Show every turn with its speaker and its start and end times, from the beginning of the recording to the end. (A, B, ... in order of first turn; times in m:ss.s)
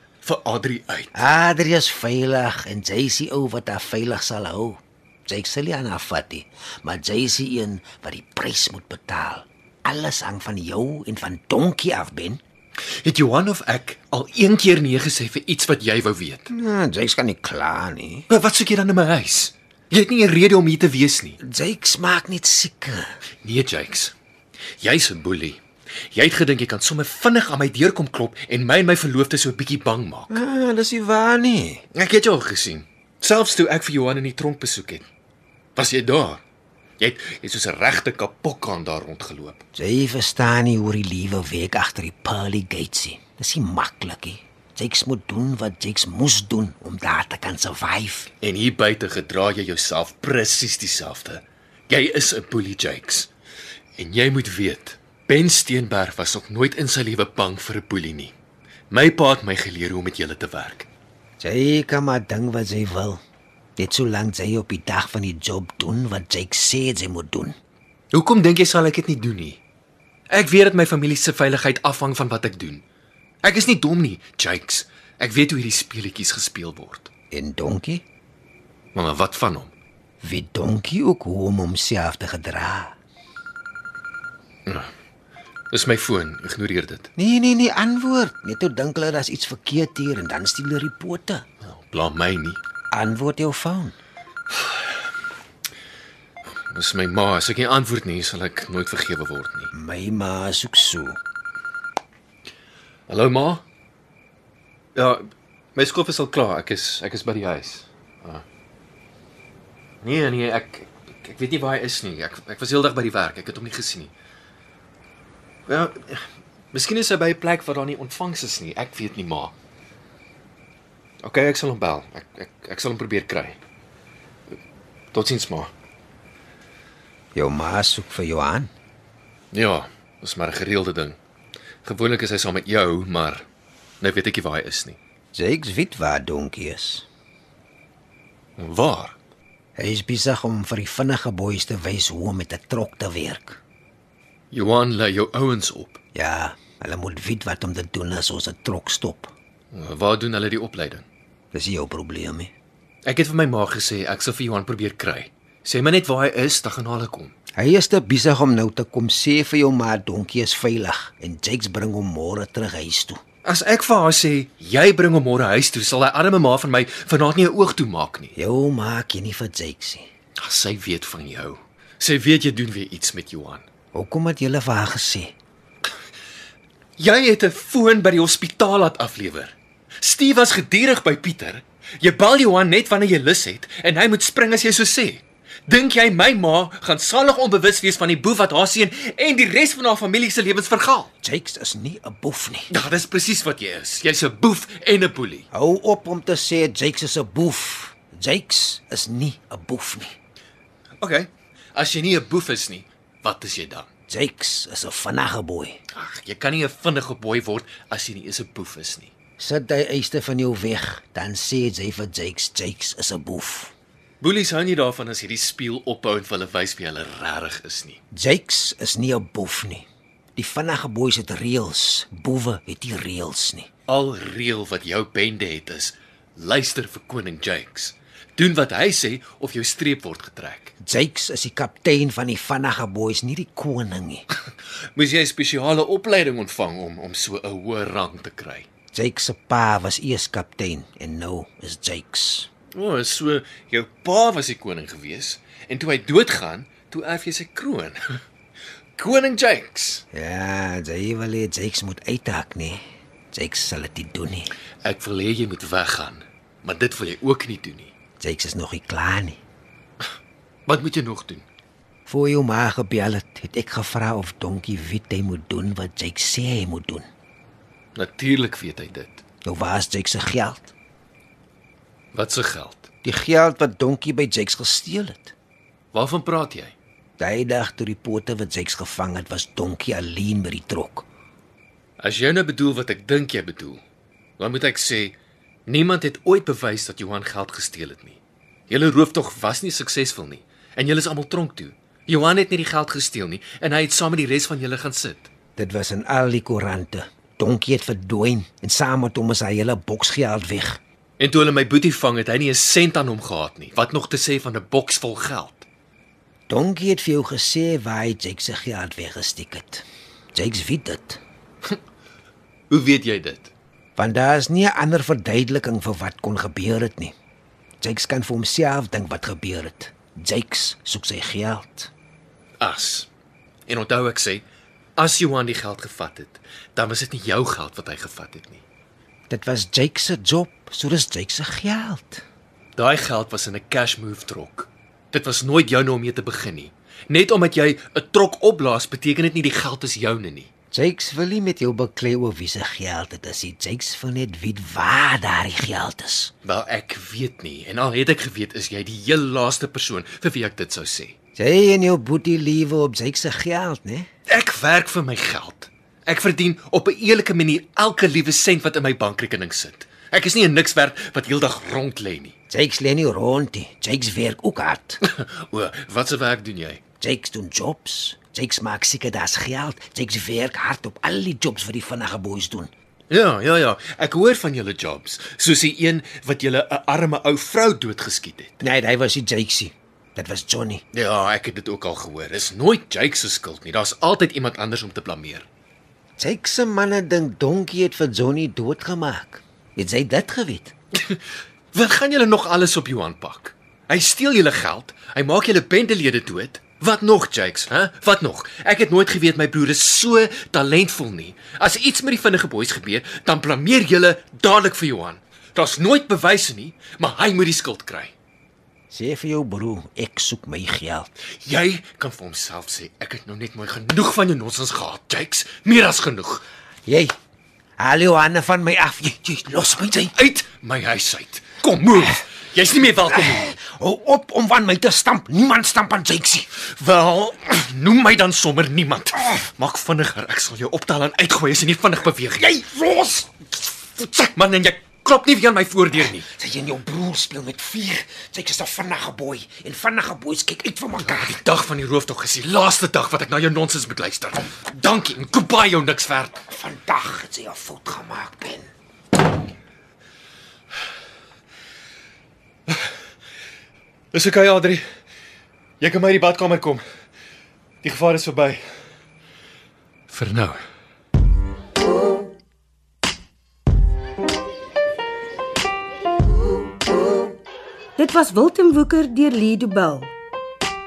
0:00.2-0:01.1 A
0:01.1-0:12.4 B
0:13.0-0:16.4 A
0:16.5-0:18.3 B
0:18.3-0:21.3 A
0:21.4-0:23.1 B
0:23.4-0:24.1 A
0:24.8-0:25.6 A
0:26.2-0:30.3 A
0:30.3-0:31.9 B
0:32.0-0:35.0 A
0:35.8-0:36.4 A
0:37.0-0:39.6 A
0:39.8-0:48.3 B
0:48.4-0:53.3 A
0:54.0-0:58.3 A
0:58.9-1:00.9 A
1:01.4-1:03.2 B
1:03.8-1:07.6 B
1:08.1-1:09.6 A
1:10.3-1:12.8 A
1:13.4-1:17.1 A
1:17.3-1:18.0 B
1:19.0-1:19.7 A
1:20.2-1:23.0 B
1:25.7-1:27.1 A
1:27.2-1:31.4 B
1:31.7-1:32.6 A
1:32.9-1:34.0 B
1:36.8-1:39.7 A
1:39.7-1:41.2 B
1:43.1-1:43.6 A
1:45.0-1:45.2 A
1:45.8-1:48.4 A
1:50.0-1:54.1 A
1:55.7-1:59.5 A
2:01.2-2:03.6 A
2:05.1-2:05.7 A
2:07.4-2:08.7 B
2:09.5-2:11.2 A
2:11.9-2:13.4 A
2:14.0-2:15.0 A
2:15.4-2:17.1 B
2:18.6-2:19.2 A
2:19.8-2:23.6 B
2:24.5-2:26.0 A
2:26.1-2:29.3 B
2:29.7-2:31.0 A
2:31.5-2:32.5 B
2:33.1-2:37.3 A
2:37.6-2:43.2 B
2:43.4-2:48.3 A
2:48.4-2:50.1 B
2:50.4-2:53.6 A
2:53.9-2:55.4 B
2:57.0-3:11.1 A
3:11.2-3:12.7 B
3:12.7-3:15.4 A
3:15.5-3:20.2 B
3:21.0-3:23.9 A
3:24.1-3:25.8 B
3:26.0-3:29.1 A
3:29.4-3:33.7 B
3:34.2-3:38.0 A
3:38.1-3:43.7 B
3:43.9-3:50.7 A
3:50.8-3:54.2 B
3:55.0-3:58.6 A
3:58.9-4:02.5 B
4:02.8-4:08.2 A
4:09.0-4:10.0 A
4:10.1-4:12.8 B
4:13.3-4:14.5 B
4:14.8-4:17.9 A
4:18.2-4:19.4 B
4:20.7-4:21.4 A
4:22.1-4:27.0 B
4:28.0-4:29.2 A
4:29.4-4:30.7 B
4:32.1-4:32.9 A
4:33.0-4:35.3 B
4:35.9-4:36.7 A
4:37.2-4:41.1 B
4:42.0-4:43.8 A
4:44.4-4:45.2 A
4:45.7-4:48.2 A
4:48.7-4:55.3 A
4:55.6-5:00.8 B
5:01.2-5:05.7 A
5:06.5-5:11.2 B
5:12.7-5:13.5 A
5:14.0-5:17.2 B
5:17.8-5:21.9 B
5:22.6-5:23.1 A
5:23.7-5:24.4 A
5:25.0-5:28.6 A
5:29.3-5:32.2 B
5:32.8-5:40.5 A
5:40.7-5:46.3 B
5:46.4-5:51.1 A
5:51.4-5:54.1 B
5:54.3-6:02.3 A
6:02.5-6:05.0 B
6:05.1-6:06.8 A
6:07.0-6:12.7 B
6:13.1-6:18.5 A
6:18.6-6:20.8 B
6:21.0-6:25.4 A
6:26.2-6:30.7 B
6:31.8-6:48.1 A
6:48.9-6:51.1 B
6:51.4-6:56.4 A
6:56.9-6:57.1 B
6:57.8-7:00.2 B
7:00.1-7:03.5 A
7:02.9-7:06.5 B
7:06.6-7:12.5 A
7:12.4-7:13.3 B
7:14.0-7:16.3 A
7:16.0-7:21.4 B
7:21.0-7:26.4 A
7:26.5-7:28.7 B
7:34.1-7:34.8 A
7:35.8-7:36.8 A
7:37.8-7:38.6 A
7:40.1-7:40.6 A
7:48.0-7:50.1 C